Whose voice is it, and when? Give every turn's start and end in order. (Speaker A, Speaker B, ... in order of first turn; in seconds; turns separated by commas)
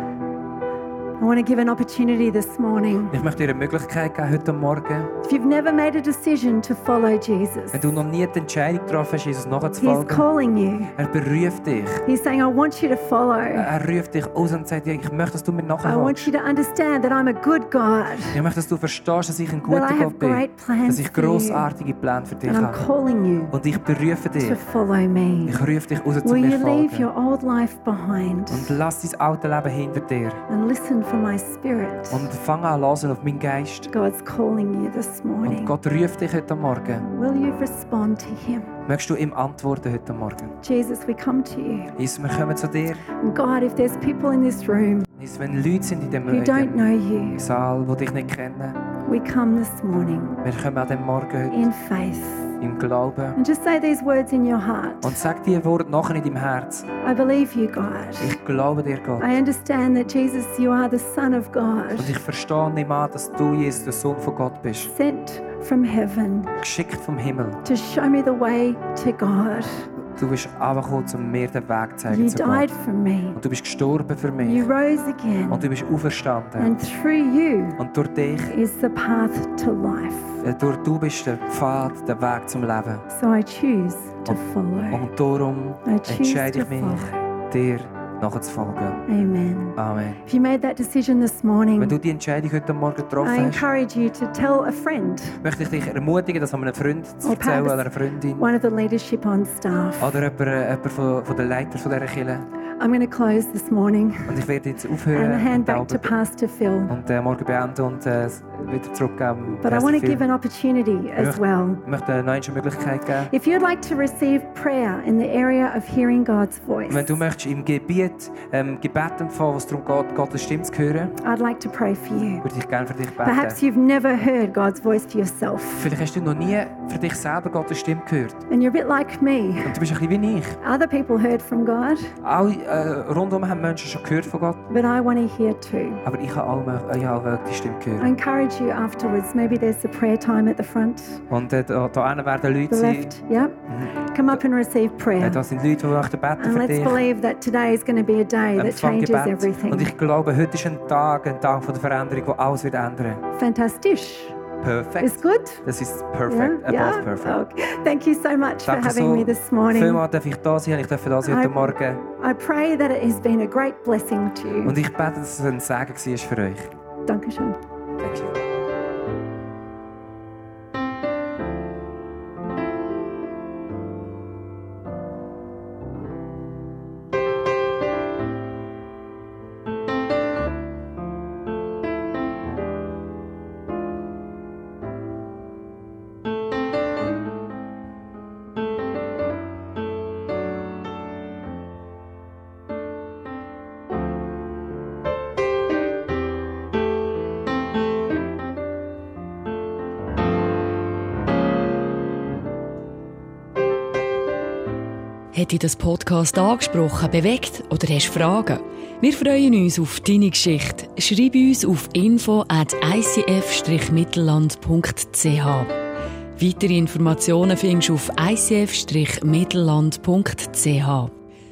Speaker A: 1.2-3.2, Speaker B: 3.1-5.1, Speaker A: 5.2-8.0, Speaker B: 7.7-10.3, Speaker A: 9.8-11.0, Speaker B: 10.9-12.1, Speaker A: 12.1-13.7, Speaker B: 13.5-16.3, Speaker A: 15.8-18.4, Speaker B: 18.3-22.9, Speaker A: 19.6-21.7, Speaker A: 22.4-23.6, Speaker B: 23.5-24.6, Speaker A: 24.4-25.6, Speaker B: 25.4-27.1, Speaker A: 26.2-28.8, Speaker B: 28.5-30.4, Speaker A: 30.5-32.3, Speaker B: 32.1-33.9, Speaker A: 33.9-35.8, Speaker B: 35.4-37.1, Speaker A: 37.0-38.7, Speaker B: 38.9-40.6, Speaker A: 40.6-42.0, Speaker B: 42.0-43.0, Speaker A: 43.2-45.1, Speaker B: 45.2-48.8, Speaker A: 46.3-47.4, Speaker A: 49.1-50.4, Speaker B: 50.4-51.7, Speaker A: 51.5-52.6, Speaker B: 52.6-53.4, Speaker A: 53.4-55.1, Speaker B: 55.0-56.9, Speaker A: 57.0-58.4, Speaker B: 58.2-59.3, Speaker A: 59.2-62.1, Speaker B: 62.0-64.9, Speaker A: 64.9-66.5, Speaker B: 66.6-67.6, Speaker A: 67.7-69.9, Speaker B: 70.2-72.7, Speaker A: 72.1-73.4, Speaker B: 73.3-74.7, Speaker A: 74.4-75.7, Speaker B: 75.5-76.7, Speaker A: 76.6-77.8, Speaker B: 77.8-78.5, Speaker A: 78.5-80.4, Speaker B: 80.4-83.1, Speaker A: 83.1-85.0, Speaker B: 84.9-89.0, Speaker A: 85.8-87.2, Speaker A: 89.1-92.0, Speaker B: 89.8-90.2, Speaker B: 91.8-93.7, Speaker A: 93.2-95.4, Speaker B: 95.4-98.5, Speaker A: 97.2-100.2, Speaker B: 100.0-102.5, Speaker A: 102.8-104.4, Speaker B: 104.3-106.2, Speaker A: 105.1-107.0, Speaker B: 106.9-110.3, Speaker A: 109.6-111.8, Speaker B: 111.2-113.3, Speaker A: 113.3-117.2, Speaker B: 116.9-121.2, Speaker A: 121.2-122.5, Speaker B: 122.4-123.6, Speaker A: 123.2-125.9, Speaker B: 125.8-128.4, Speaker A: 128.5-129.8, Speaker B: 129.6-130.6, Speaker A: 130.6-132.1, Speaker B: 132.2-134.7, Speaker A: 134.7-136.0, Speaker B: 136.1-138.1, Speaker A: 138.0-141.2, Speaker B: 141.3-143.1, Speaker A: 142.7-145.4, Speaker B: 143.7-144.4, Speaker B: 145.2-147.1, Speaker A: 146.4-149.9, Speaker B: 148.6-153.2, Speaker A: 153.3-154.4, Speaker B: 154.6-157.4, Speaker A: 155.0-155.6, Speaker A: 156.3-160.0, Speaker B: 158.7-162.0, Speaker A: 161.2-164.8, Speaker B: 164.6-166.7, Speaker A: 167.1-167.6, Speaker B: 168.0-168.3, Speaker C: 205.3-215.7, Speaker C: 216.4-221.1